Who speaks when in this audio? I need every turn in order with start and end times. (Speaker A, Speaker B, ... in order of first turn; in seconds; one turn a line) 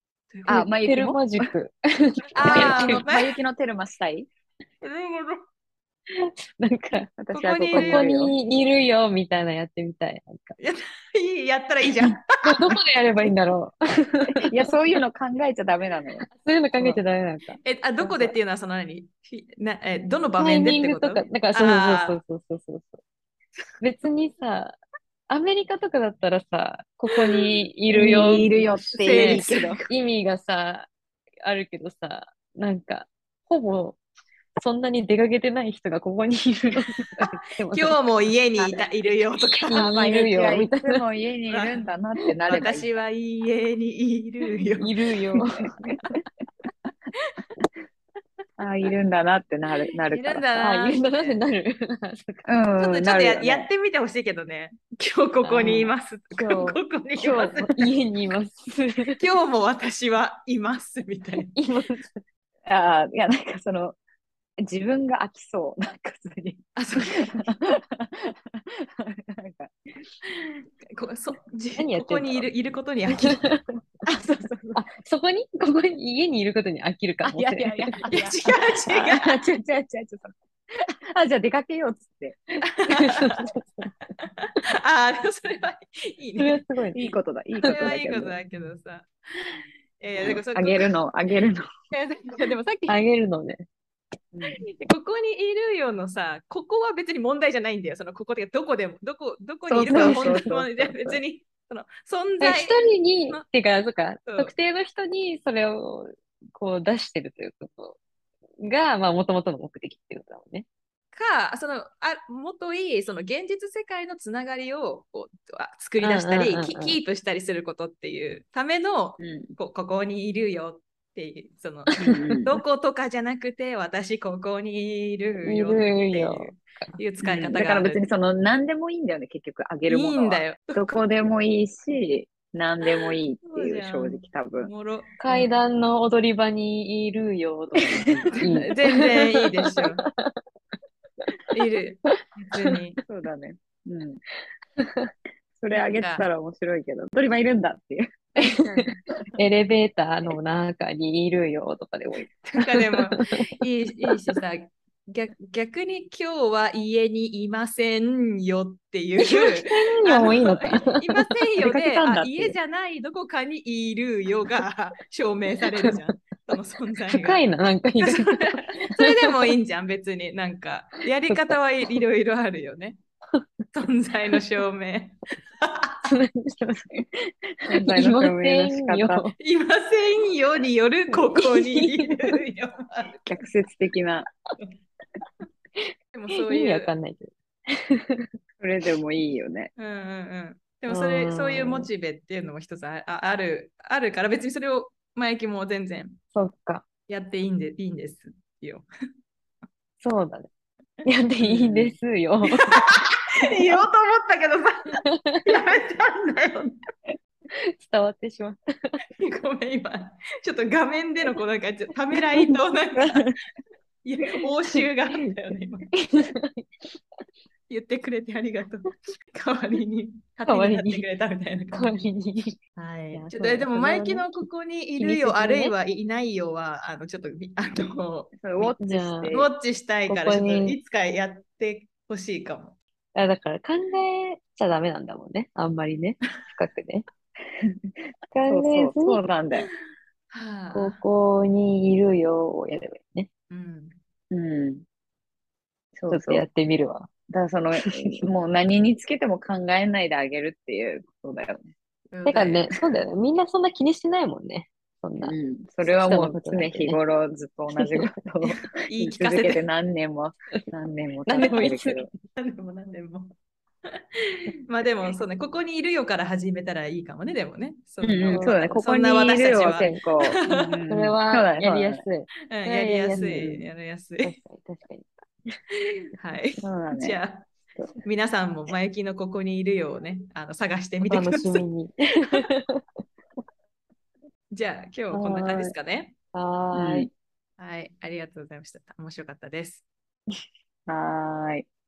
Speaker A: 0.3-0.7
Speaker B: 0.5-1.2
Speaker C: 0.5-3.0
Speaker A: 2.3-3.3
Speaker B: 2.4-4.3
Speaker A: 4.8-5.4
Speaker C: 6.6-7.1
Speaker B: 7.2-8.3
Speaker A: 7.3-8.1
Speaker C: 7.7-10.6
Speaker A: 10.6-12.5
Speaker C: 12.4-14.3
Speaker B: 14.3-16.3
Speaker C: 16.3-18.4
Speaker A: 17.6-22.2
Speaker C: 20.4-23.0
Speaker C: 23.8-24.8
Speaker C: 25.3-30.9
Speaker B: 27.9-29.8
Speaker A: 29.0-29.9
Speaker C: 31.4-34.0
Speaker C: 34.6-38.0
Speaker A: 37.7-39.8
Speaker C: 39.7-41.0
Speaker B: 39.7-42.9
Speaker A: 41.5-41.9
Speaker A: 42.5-44.9
Speaker C: 44.8-45.8
Speaker B: 48.6-50.5
Speaker A: 50.1-51.4
Speaker C: 50.5-52.5
Speaker B: 52.4-53.7
Speaker A: 52.8-57.7
Speaker C: 55.4-59.2
Speaker B: 55.5-55.9
Speaker B: 57.2-57.8
Speaker A: 59.2-61.5
Speaker C: 61.4-62.2
Speaker B: 62.6-64.0
Speaker B: 64.6-66.6
Speaker A: 66.8-67.4
Speaker B: 67.2-69.7
Speaker A: 70.3-73.4
Speaker C: 71.8-72.5
Speaker C: 73.1-73.8
Speaker A: 74.0-74.8
Speaker C: 74.7-78.1
Speaker B: 77.2-82.4
Speaker A: 78.1-79.4
Speaker A: 82.8-83.5
Speaker C: 82.9-83.9
Speaker A: 84.5-86.6
Speaker C: 86.4-87.9
Speaker B: 86.9-88.4
Speaker A: 87.6-90.9
Speaker B: 90.2-91.6
Speaker A: 91.9-93.0
Speaker C: 92.9-93.6
Speaker A: 94.5-102.8
Speaker B: 99.7-101.2
Speaker C: 99.8-100.5
Speaker C: 102.4-108.0
Speaker A: 104.2-104.5
Speaker C: 108.6-110.7
Speaker A: 111.1-128.0
Speaker C: 116.0-117.0
Speaker B: 119.2-119.5
Speaker C: 122.0-122.4
Speaker B: 122.0-122.5
Speaker C: 125.4-127.0
Speaker B: 127.2-134.7
Speaker A: 129.8-130.9
Speaker A: 133.4-135.5
Speaker C: 135.2-140.1
Speaker B: 137.5-138.5
Speaker A: 138.3-140.0
Speaker A: 141.5-143.0
Speaker B: 143.1-144.2
Speaker C: 144.8-145.1
Speaker B: 145.6-148.9
Speaker A: 145.7-146.2
Speaker C: 149.3-153.3
Speaker A: 152.4-167.5
Speaker C: 159.2-161.2
Speaker B: 161.6-162.6
Speaker C: 165.7-166.1
Speaker C: 167.1-169.5
Speaker A: 168.0-172.9
Speaker C: 171.2-172.0
Speaker A: 173.7-176.1
Speaker C: 176.0-176.9
Speaker B: 177.7-179.2
Speaker C: 177.7-179.3
Speaker A: 179.4-183.2
Speaker C: 181.1-182.3
Speaker B: 183.3-184.3
Speaker A: 186.1-186.9
Speaker C: 186.3-187.3
Speaker C: 187.9-188.2
Speaker B: 188.6-189.7
Speaker A: 189.8-196.2
Speaker C: 190.9-191.9
Speaker C: 196.3-196.8
Speaker A: 197.1-198.8
Speaker C: 200.0-200.5
Speaker C: 201.0-202.7
Speaker A: 201.4-201.8
Speaker A: 202.6-206.7
Speaker C: 205.1-205.4
Speaker C: 207.7-208.6
Speaker A: 209.2-213.2
Speaker C: 212.3-213.3
Speaker A: 214.0-215.9
Speaker C: 216.0-216.6
Speaker A: 217.7-222.0
Speaker C: 220.5-221.1
Speaker C: 221.7-222.6
Speaker A: 222.8-228.8
Speaker C: 223.1-225.7
Speaker B: 228.4-229.5
Speaker C: 228.8-229.3
Speaker A: 229.3-232.8
Speaker C: 230.1-230.8
Speaker C: 233.1-237.1
Speaker C: 238.3-239.2
Speaker B: 238.5-239.7
Speaker A: 240.3-241.0
Speaker C: 240.7-243.3
Speaker A: 243.5-243.9
Speaker B: 244.3-244.8
Speaker B: 245.9-246.4
Speaker C: 246.1-247.1
Speaker B: 247.3-251.7
Speaker C: 247.8-248.2
Speaker A: 252.1-252.7
Speaker C: 252.2-257.0
Speaker B: 255.2-262.1
Speaker C: 257.8-258.1
Speaker A: 258.8-259.6
Speaker C: 261.3-262.1
Speaker A: 261.4-261.7
Speaker A: 262.3-263.3
Speaker A: 264.5-270.8
Speaker B: 268.0-272.0
Speaker C: 268.3-268.6
Speaker C: 270.9-273.7
Speaker A: 272.5-274.4
Speaker C: 274.2-275.1
Speaker A: 276.1-277.5
Speaker B: 276.6-277.2
Speaker A: 278.0-281.6
Speaker C: 281.0-282.6
Speaker A: 284.5-286.1
Speaker C: 285.1-285.7
Speaker C: 286.3-287.1
Speaker B: 286.7-287.1
Speaker A: 287.6-289.9
Speaker B: 290.9-291.6